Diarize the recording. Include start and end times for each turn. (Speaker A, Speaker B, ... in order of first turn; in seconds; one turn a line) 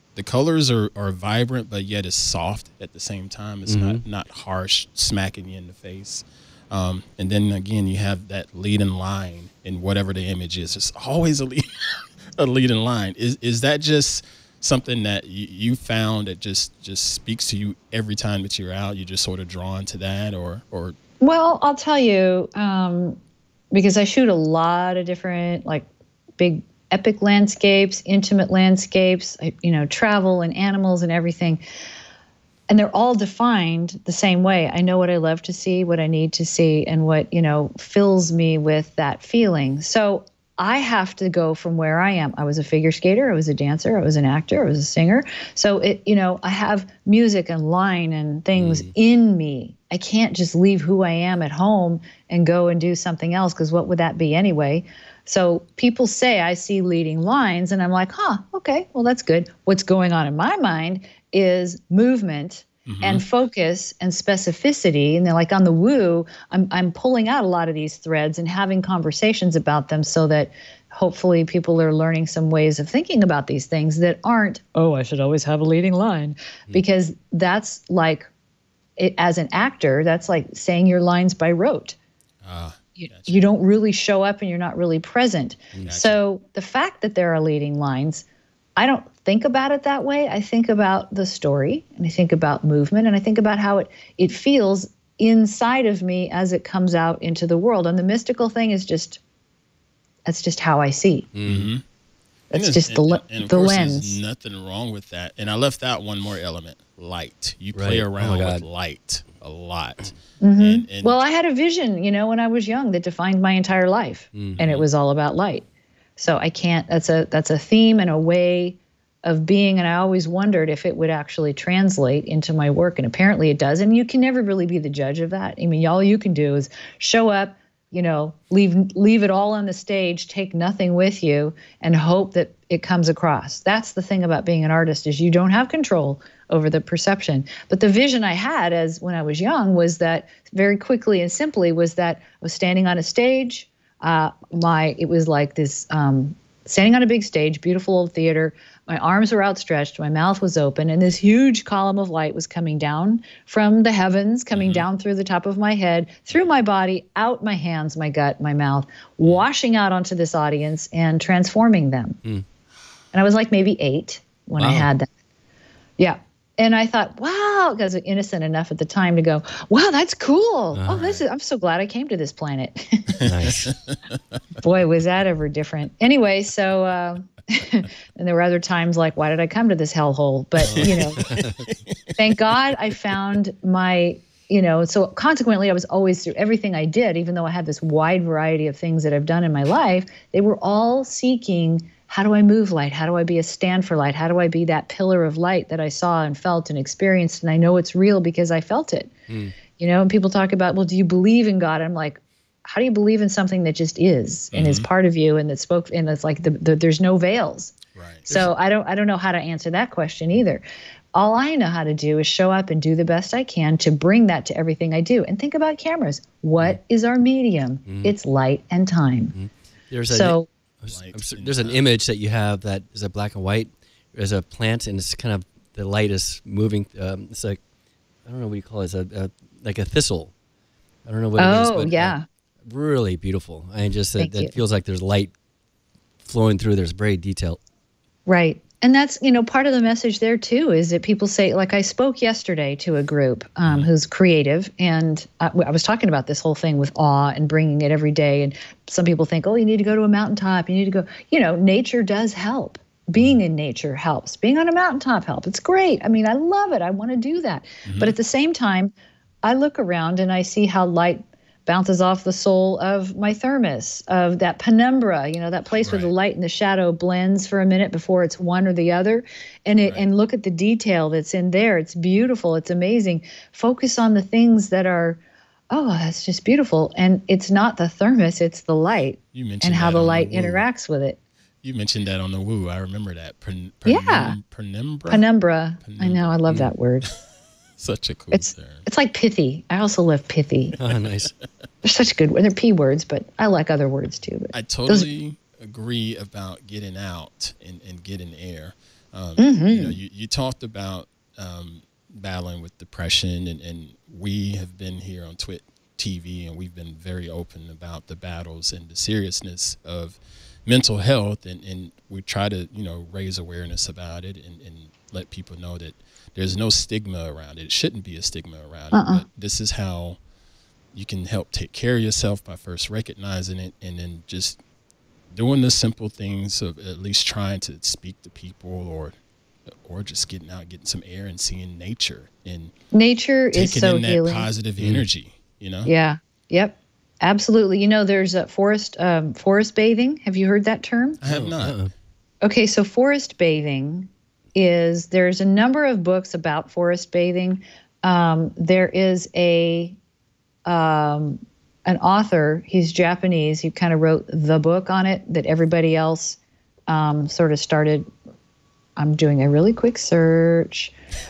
Speaker A: 0.1-11.7
Speaker B: 3.6-4.0
Speaker A: 12.4-20.9
Speaker C: 21.2-23.2
Speaker C: 23.7-25.9
Speaker C: 26.4-31.6
Speaker C: 32.7-78.3
Speaker B: 48.5-48.9
Speaker A: 62.9-63.2
Speaker C: 79.0-82.0
Speaker A: 82.4-83.5
Speaker C: 83.0-88.2
Speaker A: 85.8-86.2
Speaker C: 88.8-99.2
Speaker C: 100.2-101.3
Speaker B: 101.3-101.7
Speaker A: 101.5-101.8
Speaker C: 102.5-104.2
Speaker A: 102.5-111.2
Speaker B: 107.7-108.6
Speaker C: 110.4-115.6
Speaker B: 114.3-114.6
Speaker C: 116.2-162.2
Speaker A: 154.5-154.8
Speaker C: 163.1-165.1
Speaker B: 164.6-164.9
Speaker C: 166.0-173.2
Speaker B: 170.7-171.2
Speaker B: 173.2-173.7
Speaker C: 174.6-181.2
Speaker B: 180.6-181.6
Speaker A: 180.7-181.8
Speaker C: 182.2-199.1
Speaker B: 199.3-199.6
Speaker C: 199.8-207.7
Speaker A: 204.5-204.9
Speaker A: 207.9-208.5
Speaker C: 208.3-210.6
Speaker C: 211.1-219.3
Speaker B: 217.8-218.2
Speaker B: 219.3-227.6
Speaker C: 220.1-220.5
Speaker A: 220.9-221.8
Speaker B: 228.2-230.3
Speaker B: 231.0-232.1
Speaker C: 231.4-232.2
Speaker B: 232.7-235.3
Speaker C: 234.2-234.5
Speaker B: 236.2-237.6
Speaker C: 238.2-258.9
Speaker A: 257.9-258.1
Speaker C: 259.4-275.2
Speaker A: 265.8-266.1
Speaker C: 275.7-281.2
Speaker A: 279.3-280.6
Speaker A: 281.6-285.2
Speaker C: 283.9-284.4
Speaker C: 285.1-287.0
Speaker A: 285.8-286.2
Speaker B: 286.5-286.7
Speaker A: 287.8-288.8
Speaker C: 288.3-290.8
Speaker B: 290.8-291.3
Speaker C: 291.8-295.1
Speaker A: 294.5-320.2
Speaker C: 299.4-299.9
Speaker C: 318.9-319.2
Speaker A: 320.9-324.6
Speaker A: 325.3-329.1
Speaker A: 329.7-332.7
Speaker C: 332.9-334.5
Speaker A: 333.5-335.9
Speaker C: 335.8-341.2
Speaker A: 341.2-341.9
Speaker B: 341.2-341.9
Speaker C: 342.4-350.0
Speaker C: 350.6-358.1
Speaker C: 359.0-360.9